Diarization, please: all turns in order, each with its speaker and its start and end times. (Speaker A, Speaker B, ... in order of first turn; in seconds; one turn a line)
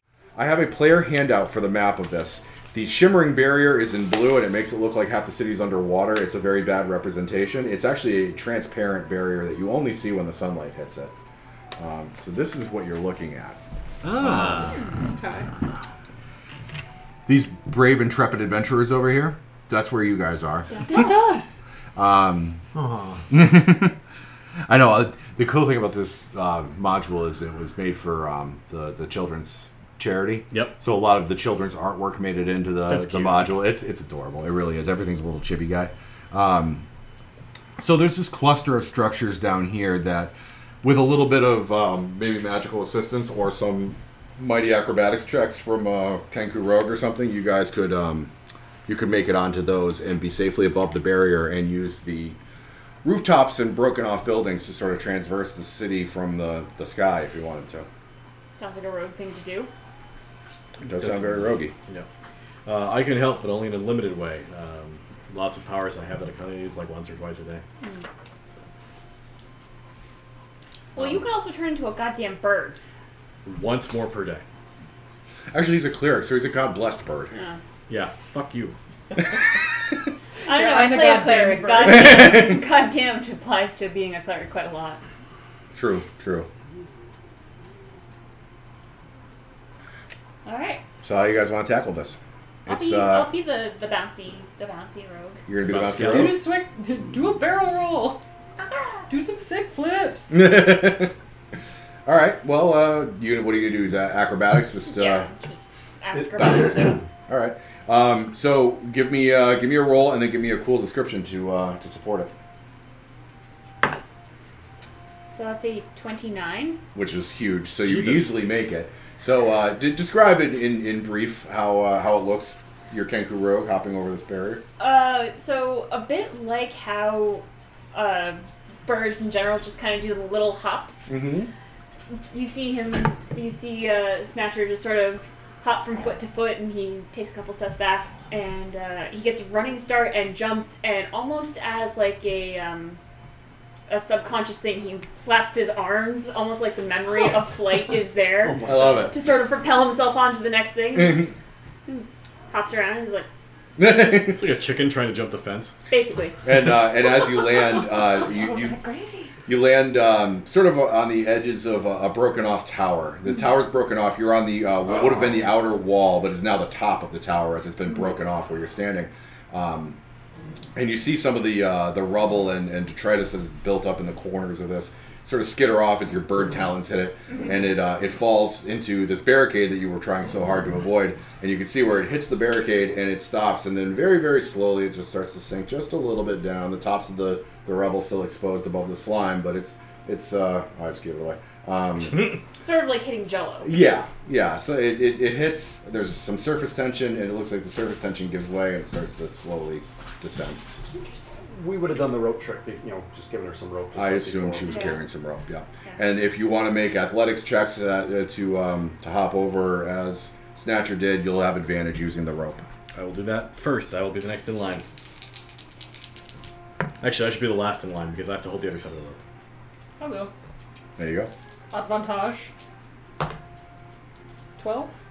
Speaker A: 0.3-11.1
Speaker A: 11.8-13.6
Speaker B: 14.0-14.8
Speaker C: 14.7-15.5
Speaker A: 17.2-20.8
Speaker D: 20.7-21.3
Speaker C: 20.7-21.6
Speaker A: 21.9-22.6
Speaker E: 22.7-23.2
Speaker A: 23.3-24.0
Speaker A: 24.7-36.9
Speaker B: 30.5-30.8
Speaker B: 32.9-33.5
Speaker A: 37.8-48.3
Speaker A: 48.9-52.4
Speaker A: 53.0-57.9
Speaker D: 58.5-59.7
Speaker A: 60.8-61.7
Speaker B: 60.9-62.1
Speaker B: 62.6-67.6
Speaker D: 70.9-72.8
Speaker B: 73.4-74.4
Speaker A: 75.5-77.3
Speaker D: 77.3-77.6
Speaker B: 77.9-78.8
Speaker C: 80.5-82.4
Speaker D: 80.5-85.0
Speaker A: 85.7-86.5
Speaker D: 90.4-90.8
Speaker A: 91.0-93.3
Speaker D: 92.7-95.4
Speaker A: 95.5-96.5
Speaker B: 95.6-96.4
Speaker C: 96.0-98.2
Speaker D: 98.6-99.0
Speaker C: 99.1-100.4
Speaker A: 100.3-101.1
Speaker A: 102.0-105.3
Speaker D: 104.9-107.0
Speaker A: 106.3-112.3
Speaker D: 115.3-116.8
Speaker A: 116.9-124.6
Speaker B: 117.8-118.4
Speaker D: 124.8-131.1
Speaker A: 131.1-131.5
Speaker D: 132.1-143.0
Speaker D: 143.9-151.3
Speaker E: 148.5-149.0
Speaker A: 148.6-149.1
Speaker A: 151.0-151.3
Speaker D: 151.8-153.3
Speaker A: 153.8-154.4
Speaker B: 154.0-155.8
Speaker D: 155.9-156.4
Speaker A: 156.4-158.8
Speaker C: 158.7-159.3
Speaker A: 159.4-170.0
Speaker A: 170.7-192.3
Speaker D: 192.6-193.8
Speaker A: 193.6-200.6
Speaker E: 201.5-204.9
Speaker A: 203.9-212.7
Speaker D: 204.6-205.0
Speaker B: 212.9-214.8
Speaker B: 217.0-219.2
Speaker C: 220.0-220.3
Speaker A: 221.0-221.3
Speaker C: 221.7-222.5
Speaker C: 224.6-224.9